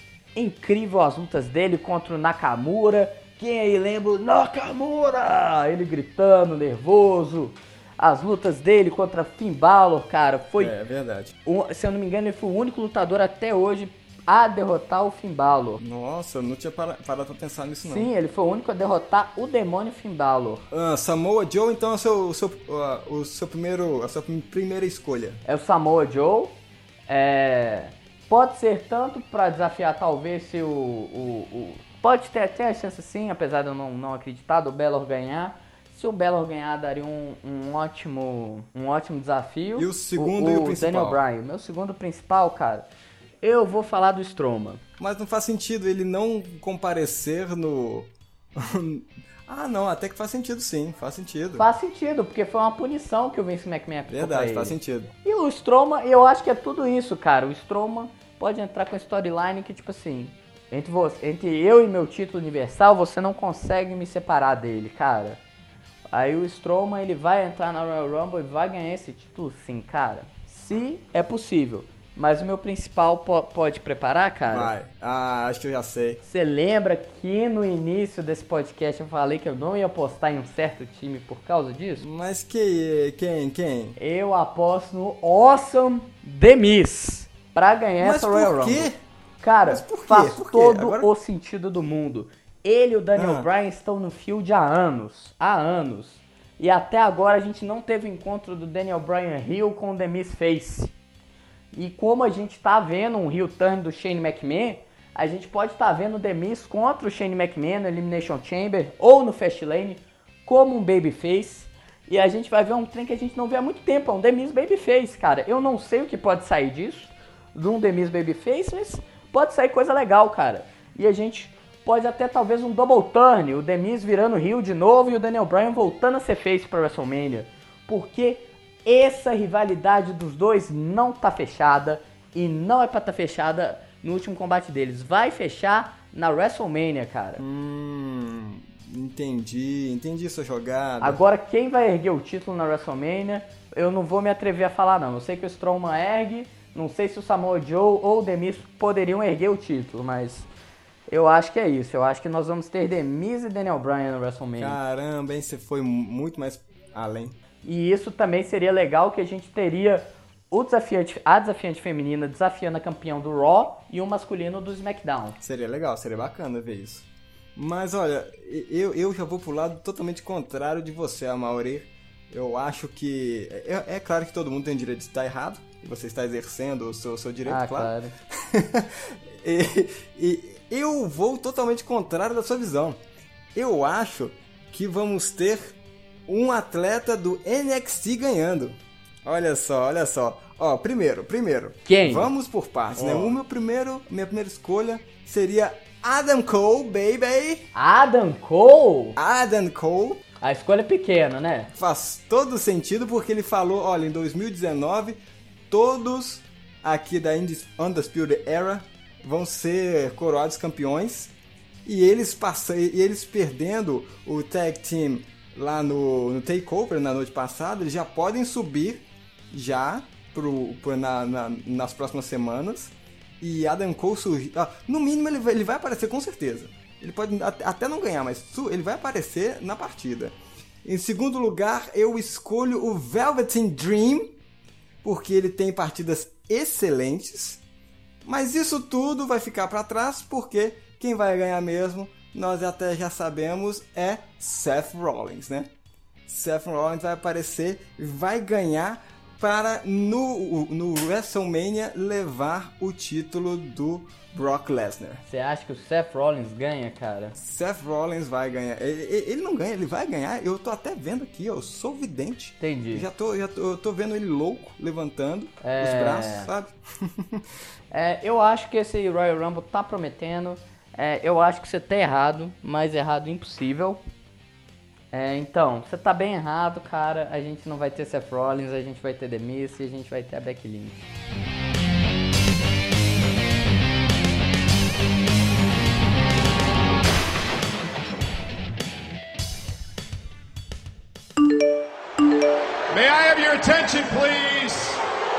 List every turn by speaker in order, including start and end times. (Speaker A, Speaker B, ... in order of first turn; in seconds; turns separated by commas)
Speaker A: 0.3-10.7, Speaker B: 10.6-11.3, Speaker A: 11.4-15.8, Speaker B: 15.8-18.1, Speaker A: 17.8-20.7, Speaker B: 20.7-25.4, Speaker A: 25.4-26.6, Speaker A: 27.1-42.9, Speaker B: 39.7-41.2, Speaker A: 43.4-44.8, Speaker B: 45.0-51.7, Speaker A: 51.6-65.4, Speaker B: 54.1-55.1, Speaker A: 66.1-74.7, Speaker B: 74.5-76.2, Speaker A: 76.2-82.0, Speaker B: 82.0-84.0, Speaker A: 84.0-88.9, Speaker B: 88.0-89.0, Speaker A: 89.4-100.9, Speaker B: 89.7-91.1, Speaker B: 93.1-93.5, Speaker A: 101.7-137.4, Speaker B: 137.4-141.2, Speaker A: 141.0-150.5, Speaker A: 151.1-154.8, Speaker B: 154.6-157.3, Speaker A: 157.6-165.4, Speaker B: 165.4-183.0, Speaker A: 177.4-178.1, Speaker B: 183.5-185.8, Speaker B: 186.3-197.7, Speaker A: 191.8-192.3, Speaker A: 192.9-193.3, Speaker A: 197.7-199.2, Speaker B: 199.2-200.2, Speaker A: 200.4-201.7, Speaker B: 201.7-211.3, Speaker B: 211.8-234.3, Speaker B: 235.0-237.6, Speaker B: 238.2-245.7, Speaker B: 246.3-255.2, Speaker A: 255.3-257.4, Speaker B: 257.4-267.4, Speaker A: 262.6-263.1, Speaker A: 265.6-266.5, Speaker A: 267.9-274.0, Speaker A: 275.1-281.1, Speaker C: 292.9-295.0